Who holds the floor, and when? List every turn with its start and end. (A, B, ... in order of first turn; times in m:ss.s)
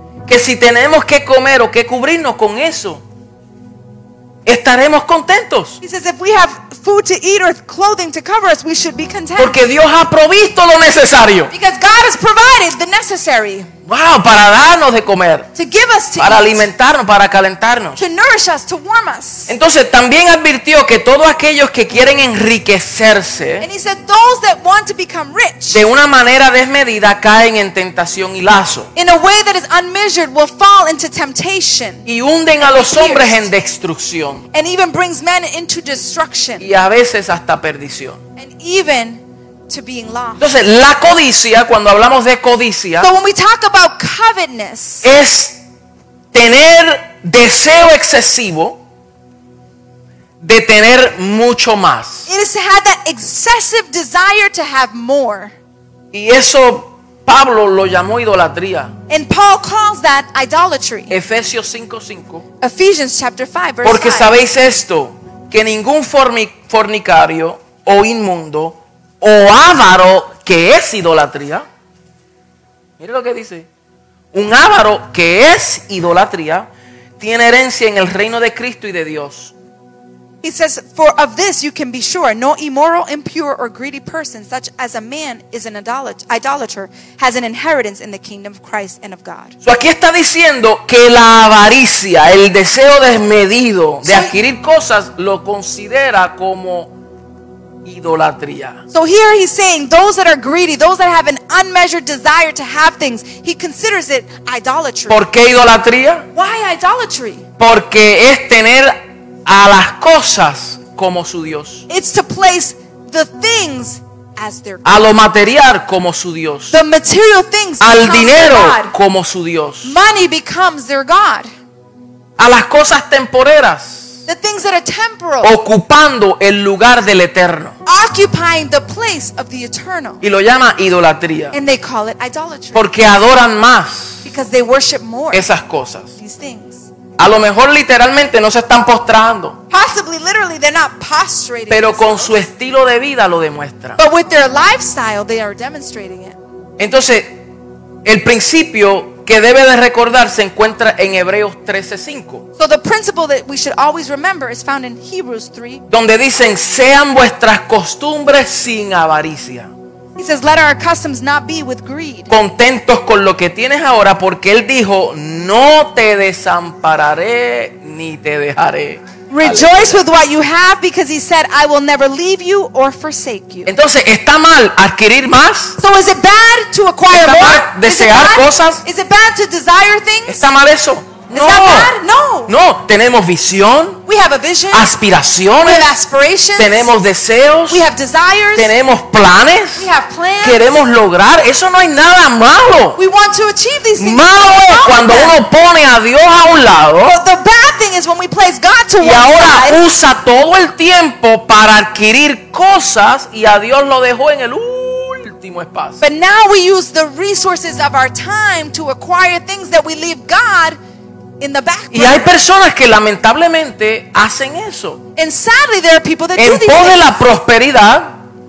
0:00.3-0:03.0 A
0:04.4-0:05.8 A
0:05.8-0:09.6 B
0:09.4-0:11.5 A
0:11.5-0:13.7 B
0:13.9-0:15.5 A
0:15.5-0:16.6 B
0:16.2-0:18.0 A
0:18.0-0:19.5 B
0:19.5-0:23.7 A
0:23.6-0:25.8 B
0:25.7-0:28.9 A
0:28.9-0:32.0 B
0:32.1-0:34.4 A
0:32.7-0:33.5 B
0:34.5-0:36.7 B
0:36.6-0:38.2 A
0:38.4-0:40.5 B
0:40.4-0:43.1 A
0:43.0-0:45.1 B
0:45.0-0:45.6 A
0:46.3-0:48.8 A
0:50.4-0:52.3 A
0:52.3-0:55.5 B
0:56.1-0:58.9 A
0:59.1-1:01.1 B
1:01.1-1:02.4 A
1:02.6-1:04.4 B
1:03.8-1:11.6 A
1:13.0-1:13.7 A
1:14.3-1:19.5 A
1:20.4-1:29.5 B
1:29.6-1:36.9 A
1:34.0-1:34.4 B
1:37.8-1:38.8 A
1:38.9-1:45.2 B
1:45.1-1:46.3 A
1:46.3-1:47.5 B
1:47.6-1:51.8 A
1:51.9-1:55.0 B
1:54.8-1:56.8 A
1:56.7-1:58.9 B
1:57.8-2:00.0 A
1:59.8-2:01.5 B
2:02.4-2:04.2 A
2:04.3-2:05.5 B
2:05.4-2:07.8 A
2:07.8-2:10.2 B
2:10.2-2:11.6 A
2:11.5-2:12.9 B
2:12.7-2:14.2 A
2:14.2-2:15.5 B
2:15.3-2:16.1 A
2:16.2-2:16.9 B
2:17.2-2:19.6 A
2:19.7-2:22.4 B
2:21.7-2:24.0 A
2:24.0-2:26.4 B
2:26.8-2:27.4 A
2:28.0-2:32.4 A
2:32.6-2:35.8 B
2:35.9-2:39.7 A
2:40.2-2:42.3 B
2:42.3-2:50.0 A
2:49.3-2:53.7 B
2:53.6-2:55.8 A
2:55.8-3:00.4 B
2:57.1-2:58.8 A
3:00.3-3:01.9 A
3:01.3-3:02.5 B
3:02.5-3:04.0 A
3:04.1-3:04.9 B
3:04.7-3:05.9 A
3:05.6-3:06.9 B
3:06.6-3:07.8 A
3:07.7-3:08.7 B
3:08.5-3:09.9 A
3:09.8-3:10.8 B
3:10.4-3:13.0 A
3:13.0-3:15.4 B
3:14.0-3:17.2 A
3:17.1-3:19.8 B
3:19.0-3:26.0 A
3:26.0-3:30.8 B
3:31.4-3:32.3 B
3:31.9-3:35.0 A
3:35.2-3:37.1 B
3:36.4-3:38.2 A